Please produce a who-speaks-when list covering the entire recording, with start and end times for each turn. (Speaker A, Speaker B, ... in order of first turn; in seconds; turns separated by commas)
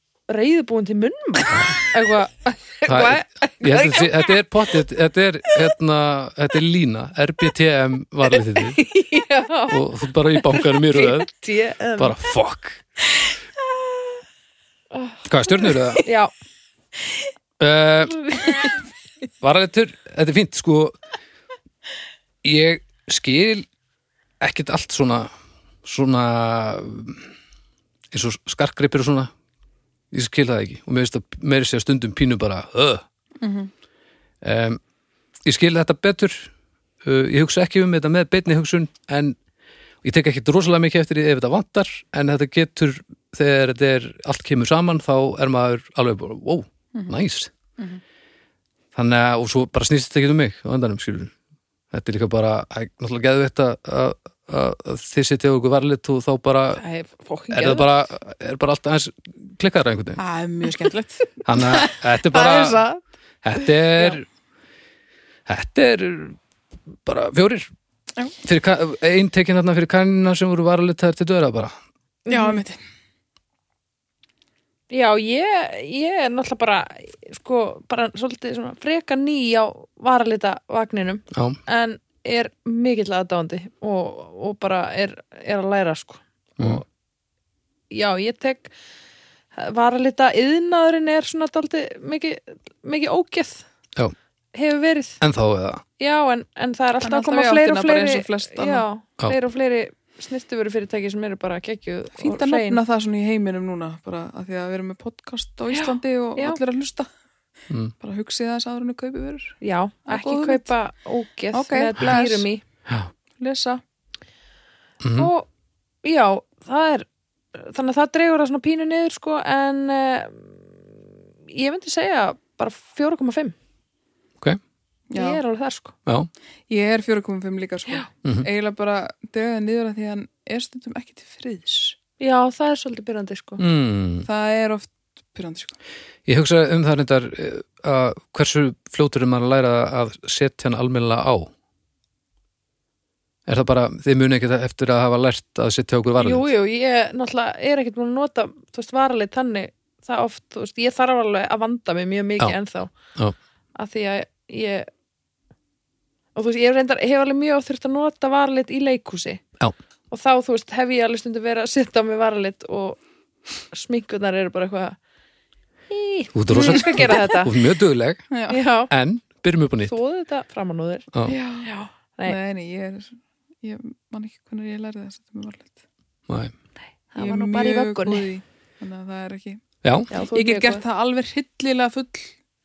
Speaker A: 0.3-4.4, Speaker B: 2.9-8.8, Speaker A: 8.6-12.2, Speaker B: 9.7-11.3, Speaker B: 12.0-12.8, Speaker A: 14.9-16.3, Speaker B: 15.3-16.1, Speaker B: 17.6-18.2, Speaker A: 18.3-18.8, Speaker B: 19.4-21.0, Speaker B: 22.4-23.7, Speaker B: 24.4-25.3, Speaker B: 25.8-27.3, Speaker B: 28.1-29.3, Speaker B: 30.1-33.0, Speaker C: 33.4-33.7, Speaker B: 34.4-34.8, Speaker B: 35.5-36.5, Speaker B: 37.0-39.4, Speaker B: 40.0-47.5, Speaker B: 49.0-51.3, Speaker B: 51.9-56.8, Speaker A: 56.7-57.9, Speaker B: 57.5-60.2, Speaker C: 60.2-62.9, Speaker B: 61.5-62.8, Speaker B: 63.4-64.2, Speaker B: 65.5-66.4, Speaker B: 67.1-67.7, Speaker B: 68.4-71.7, Speaker A: 72.3-72.6, Speaker C: 72.3-72.8, Speaker A: 74.9-86.8, Speaker B: 81.3-81.6, Speaker B: 86.6-86.8, Speaker A: 87.9-88.7, Speaker A: 89.6-93.6, Speaker A: 94.5-95.2, Speaker B: 95.2-95.8, Speaker A: 96.0-102.8, Speaker C: 97.0-98.9, Speaker C: 102.2-107.1, Speaker A: 105.7-106.6, Speaker C: 108.0-110.7, Speaker A: 109.6-112.6, Speaker C: 111.5-112.5, Speaker C: 113.4-113.8, Speaker B: 115.0-115.3, Speaker A: 115.2-115.5, Speaker A: 116.0-120.7, Speaker A: 121.5-123.5, Speaker C: 125.1-125.4, Speaker A: 125.2-126.0, Speaker C: 126.7-132.0, Speaker A: 132.2-133.6, Speaker B: 133.6-134.3, Speaker C: 134.2-135.8, Speaker B: 136.3-141.5, Speaker B: 143.5-146.5, Speaker A: 146.2-152.9, Speaker A: 153.8-154.9, Speaker A: 156.3-159.4, Speaker A: 160.1-163.0, Speaker A: 163.7-165.0, Speaker A: 165.9-167.6, Speaker B: 166.3-168.2, Speaker C: 166.6-166.9, Speaker C: 168.3-168.6, Speaker A: 168.5-168.9, Speaker B: 168.9-169.9, Speaker A: 169.9-171.1, Speaker C: 171.3-171.7, Speaker A: 171.6-172.4, Speaker C: 172.2-175.8, Speaker B: 176.3-176.5, Speaker A: 177.1-178.3, Speaker C: 177.2-179.6, Speaker B: 179.8-180.1, Speaker A: 180.1-180.8, Speaker C: 180.3-182.3